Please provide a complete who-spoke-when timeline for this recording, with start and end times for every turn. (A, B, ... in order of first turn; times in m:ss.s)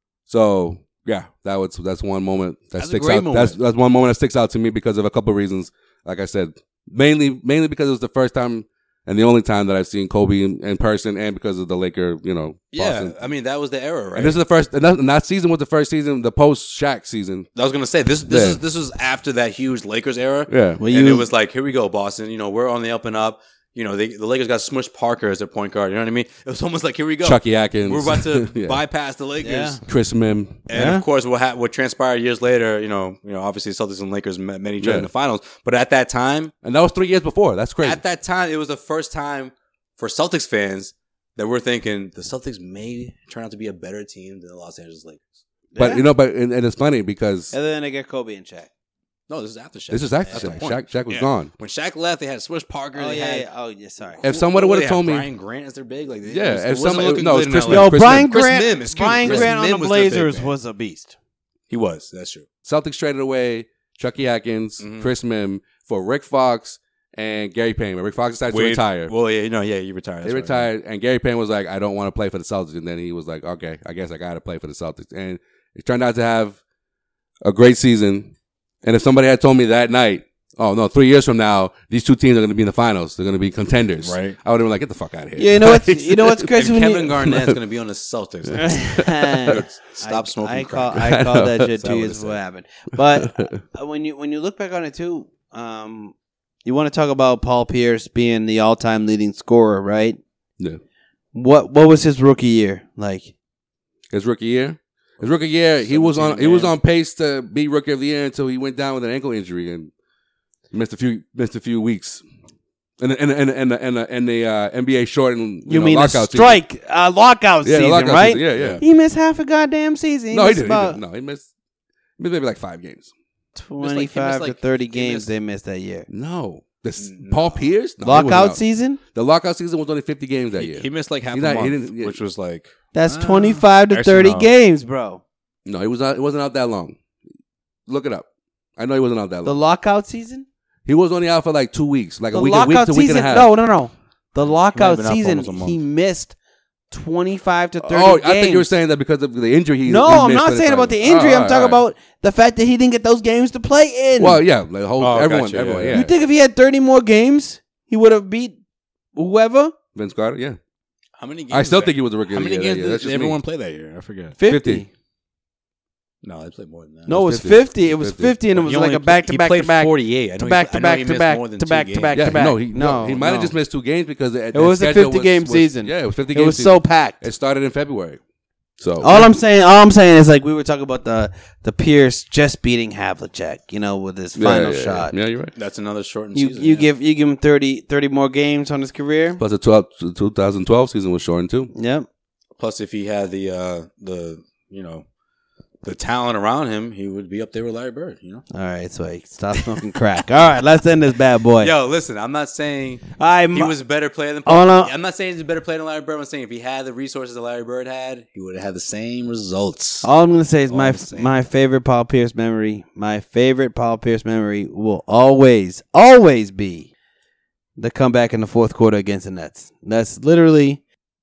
0:00.3-0:13.2 A
0:02.8-0:03.6 B
0:12.7-0:14.4 B
0:14.1-0:17.5 A
0:17.5-0:29.8 B
0:18.3-0:18.6 A
0:20.5-0:20.8 A
0:20.8-0:21.3 C
0:27.2-0:28.8 A
0:29.4-0:29.8 C
0:29.9-0:30.6 A
0:30.7-0:36.5 B
0:30.7-0:31.0 C
0:34.8-0:35.1 A
0:36.6-0:38.0 A
0:37.8-0:45.2 B
0:45.7-0:46.0 C
0:45.8-0:47.5 A
0:47.5-0:48.7 C
0:49.3-0:53.5 B
0:49.9-0:51.5 A
0:50.3-0:50.6 C
0:52.9-0:54.2 C
0:54.2-1:00.5 B
0:54.2-0:55.2 A
0:56.3-0:58.3 A
0:57.7-1:01.1 C
0:59.2-0:59.5 A
1:01.7-1:02.4 B
1:02.6-1:09.1 A
1:04.8-1:05.1 B
1:08.5-1:10.7 B
1:10.2-1:16.6 A
1:17.4-1:26.5 A
1:24.0-1:24.4 B
1:25.4-1:27.1 C
1:26.5-1:28.8 B
1:27.3-1:27.6 A
1:28.6-1:36.1 C
1:28.6-1:29.6 A
1:29.5-1:31.0 B
1:31.0-1:31.7 A
1:31.8-1:32.4 B
1:33.2-1:33.6 A
1:36.6-1:40.2 C
1:41.3-1:43.3 C
1:44.1-1:49.9 A
1:45.8-1:46.7 B
1:50.7-1:52.2 A
1:53.0-1:56.6 A
1:55.7-2:01.0 C
1:57.6-1:58.8 A
1:58.6-1:58.8 B
2:00.3-2:01.5 A
2:02.2-2:03.1 A
2:03.5-2:06.1 C
2:03.8-2:05.3 B
2:06.1-2:08.6 A
2:07.0-2:07.7 B
2:08.0-2:09.0 C
2:09.1-2:12.2 A
2:10.6-2:14.5 B
2:12.9-2:15.2 C
2:15.6-2:17.0 A
2:17.9-2:18.2 A
2:18.8-2:19.6 A
2:19.4-2:20.4 C
2:20.8-2:23.5 A
2:22.3-2:26.3 C
2:24.4-2:25.8 B
2:26.9-2:28.7 C
2:27.8-2:31.8 A
2:29.8-2:34.4 C
2:34.2-2:36.1 A
2:35.0-2:36.0 B
2:35.9-2:38.6 C
2:39.1-2:39.7 C
2:39.9-2:40.6 A
2:41.2-2:44.4 B
2:41.5-2:43.4 A
2:44.4-2:44.9 C
2:44.4-2:44.8 A
2:46.2-2:47.2 B
2:47.1-2:53.5 C
2:47.1-2:48.4 A
2:48.5-2:52.4 B
2:52.1-2:58.2 A
2:54.5-2:57.2 C
2:58.8-2:59.3 A
2:59.0-3:05.1 C
3:04.4-3:05.5 A
3:05.5-3:06.9 B
3:06.3-3:09.4 C
3:09.4-3:11.7 A
3:11.7-3:12.1 C
3:12.6-3:15.0 B
3:15.8-3:18.4 B
3:18.5-3:21.7 C
3:21.6-3:30.1 B
3:23.2-3:23.7 C
3:24.4-3:24.9 C
3:30.0-3:36.9 C
3:30.7-3:31.3 B
3:37.8-3:40.8 C